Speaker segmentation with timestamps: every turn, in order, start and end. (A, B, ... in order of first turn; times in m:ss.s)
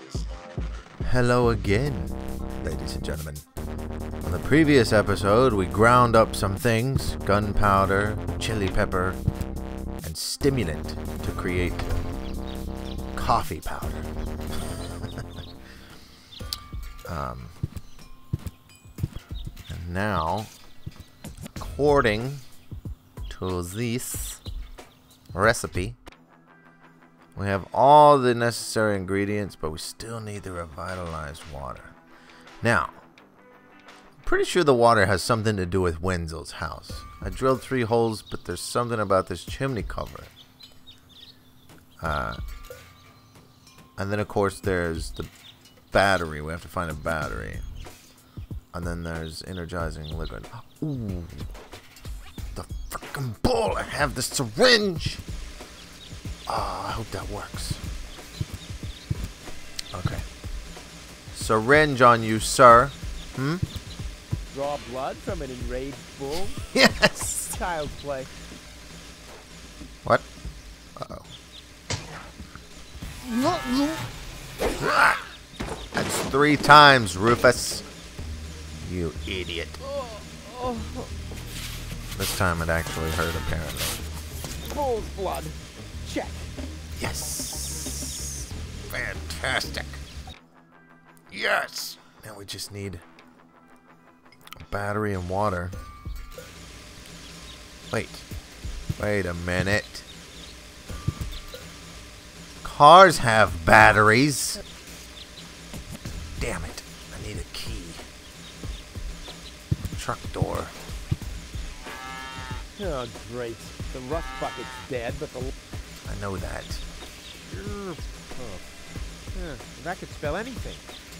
0:01.0-0:03.4 A
0:04.2-0:09.2 A
0:10.0-0:12.0 A
0:13.1-0:14.1 A
0:17.0-0:17.6 A
0:19.7-0:20.5 A
0:21.6-0:22.4 A
0:23.3-0:24.4 A
0:25.3-0:26.0 A
0:27.3-0:32.0 A
0:32.6-0:33.0 A
0:34.2-0:40.3 A
0:42.0-0:42.4 A
0:44.0-0:45.3 A
0:45.9-0:47.6 A
0:48.7-0:51.5 A
0:52.5-0:55.2 A
0:56.5-0:57.8 A
0:59.9-1:00.2 A
1:01.3-1:03.6 A
1:04.5-1:06.6 B
1:06.7-1:07.6 A
1:07.5-1:08.3 B
1:11.0-1:11.3 A
1:13.3-1:14.0 B
1:14.8-1:15.2 A
1:15.9-1:17.8 A
1:18.8-1:19.8 A
1:19.8-1:21.1 B
1:22.1-1:24.0 A
1:24.6-1:26.5 B
1:27.0-1:30.0 A
1:31.3-1:33.0 A
1:34.6-1:35.8 A
1:37.9-1:38.3 A
1:39.0-1:40.1 A
1:42.6-1:44.6 A
1:46.4-1:48.0 A
1:49.9-1:50.7 A
1:52.8-1:55.5 B
1:56.0-1:56.8 A
1:57.4-1:58.6 B
1:59.3-2:00.9 B